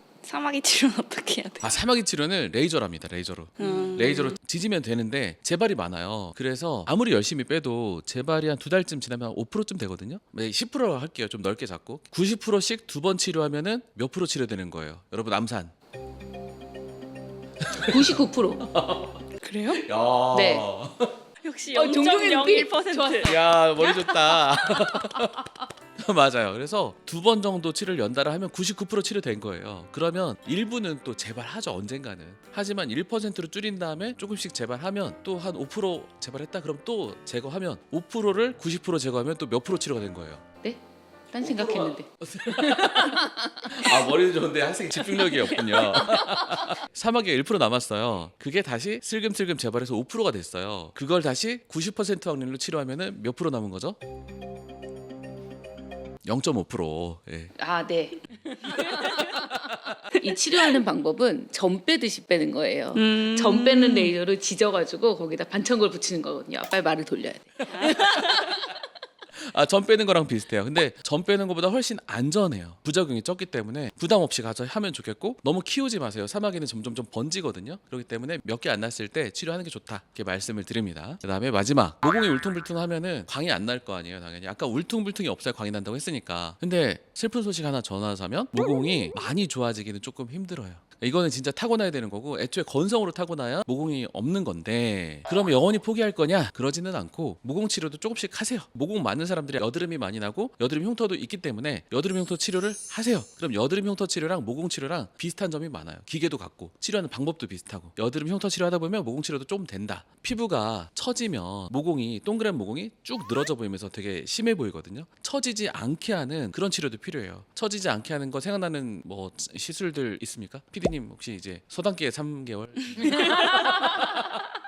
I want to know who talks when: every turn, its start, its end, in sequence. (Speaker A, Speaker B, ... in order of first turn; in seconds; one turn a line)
Speaker A: 0.2-1.8
Speaker B: 1.6-15.7
Speaker A: 3.6-4.4
Speaker B: 17.6-18.1
Speaker C: 17.8-18.7
Speaker B: 18.6-21.1
Speaker A: 19.4-19.8
Speaker C: 20.3-20.7
Speaker A: 21.4-23.4
Speaker C: 21.7-23.4
Speaker B: 23.2-40.4
Speaker C: 23.9-25.4
Speaker C: 40.6-44.1
Speaker B: 41.4-54.0
Speaker C: 45.8-46.5
Speaker B: 56.2-57.5
Speaker C: 57.6-68.8
Speaker B: 58.7-60.1
Speaker A: 58.7-59.3
Speaker A: 62.9-64.1
Speaker B: 67.6-68.6
Speaker A: 67.7-68.2
Speaker B: 69.3-124.4
Speaker A: 123.0-124.1
Speaker C: 123.1-124.4